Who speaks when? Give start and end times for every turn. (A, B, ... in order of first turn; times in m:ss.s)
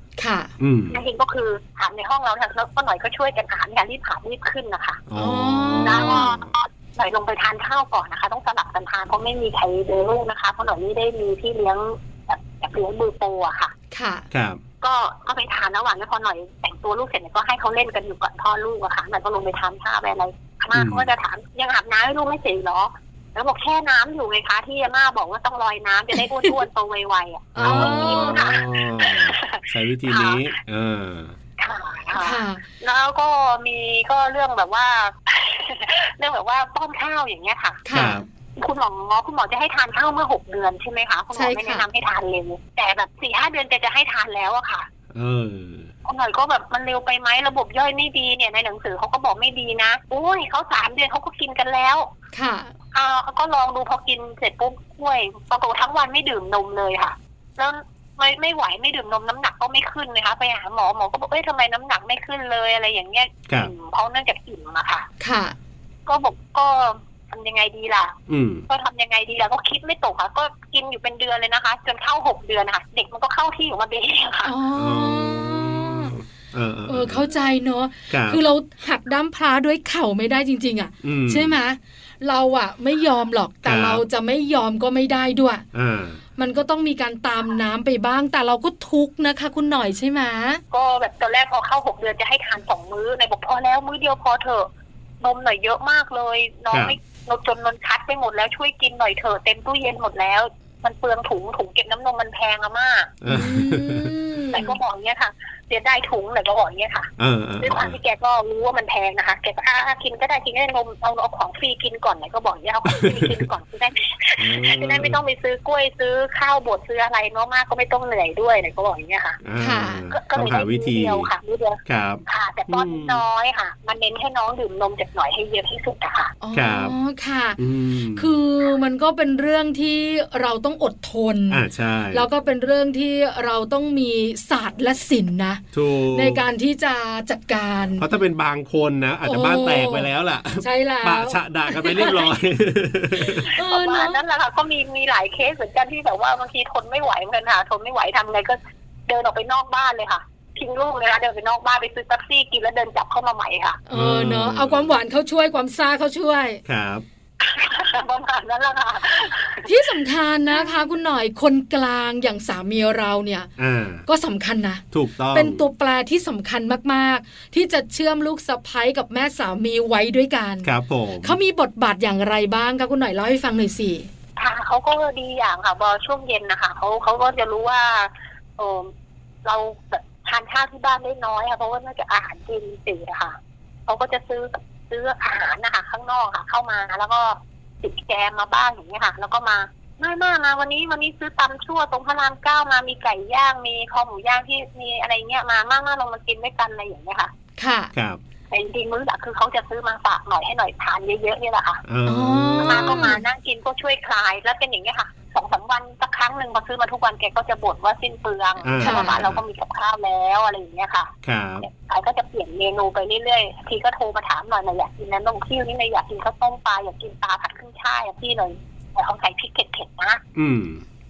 0:00.2-0:00.5 A
0:00.6-0:01.0 B
0:00.9-0:05.0 C
0:05.1-0:06.4 B
0:05.2-0:06.4 A
0:05.8-0:13.7 C
0:13.9-0:14.3 A
0:14.3-0:14.6 B
0:14.8-0:30.5 C
0:20.7-0:21.1 B
0:27.6-0:28.5 A
0:27.6-0:31.4 B
0:31.6-0:37.8 C
0:32.1-0:32.6 A
0:37.9-0:38.2 A
0:37.9-0:38.2 B
0:38.6-0:44.9 C
0:41.3-0:41.9 A
0:45.1-0:45.9 B
0:46.0-0:52.1 C
0:52.3-0:52.7 A
0:52.9-1:05.1 C
1:05.2-1:05.6 A
1:06.1-1:08.2 C
1:08.3-1:08.6 B
1:08.7-1:14.5 C
1:14.4-1:16.2 A
1:14.8-1:17.2 B
1:16.9-1:25.6 A
1:18.1-1:18.4 B
1:21.0-1:21.6 B
1:23.6-1:24.0 B
1:25.7-1:26.2 B
1:26.4-1:30.6 A
1:30.7-1:34.7 C
1:35.2-1:43.2 C
1:36.7-1:37.0 B
1:43.2-1:44.1 B
1:43.3-1:44.8 A
1:44.5-1:59.4 C
1:47.2-1:48.0 B
1:52.9-1:53.4 B
1:54.4-1:55.2 B
1:59.4-2:01.3 B
1:59.6-2:00.0 A
2:00.1-2:06.3 C
2:01.9-2:03.2 B
2:06.4-2:07.6 A
2:06.5-2:07.0 B
2:07.6-2:08.3 B
2:08.2-2:15.6 A
2:11.5-2:12.3 B
2:15.7-2:16.4 B
2:16.1-2:18.1 A
2:18.0-2:23.5 B
2:19.2-2:20.1 A
2:20.6-2:22.3 A
2:23.2-2:24.2 A
2:23.6-2:33.8 C
2:33.9-2:36.6 A
2:33.9-2:35.0 B
2:36.6-2:37.0 B
2:37.4-2:39.8 C
2:39.6-2:43.5 A
2:43.6-2:44.0 B
2:44.1-2:50.7 A
2:44.9-2:45.6 B
2:50.6-2:51.4 B
2:51.2-2:54.1 A
2:54.4-2:58.9 C
2:59.4-3:03.4 C
3:03.9-3:17.3 C
3:17.6-3:17.9 A
3:17.9-3:18.2 B
3:18.5-3:21.8 C
3:21.8-3:23.2 B
3:22.1-3:23.2 A
3:22.6-3:40.2 C
3:28.6-3:29.4 B
3:28.8-3:29.1 A
3:31.2-3:31.7 B
3:40.4-3:40.8 B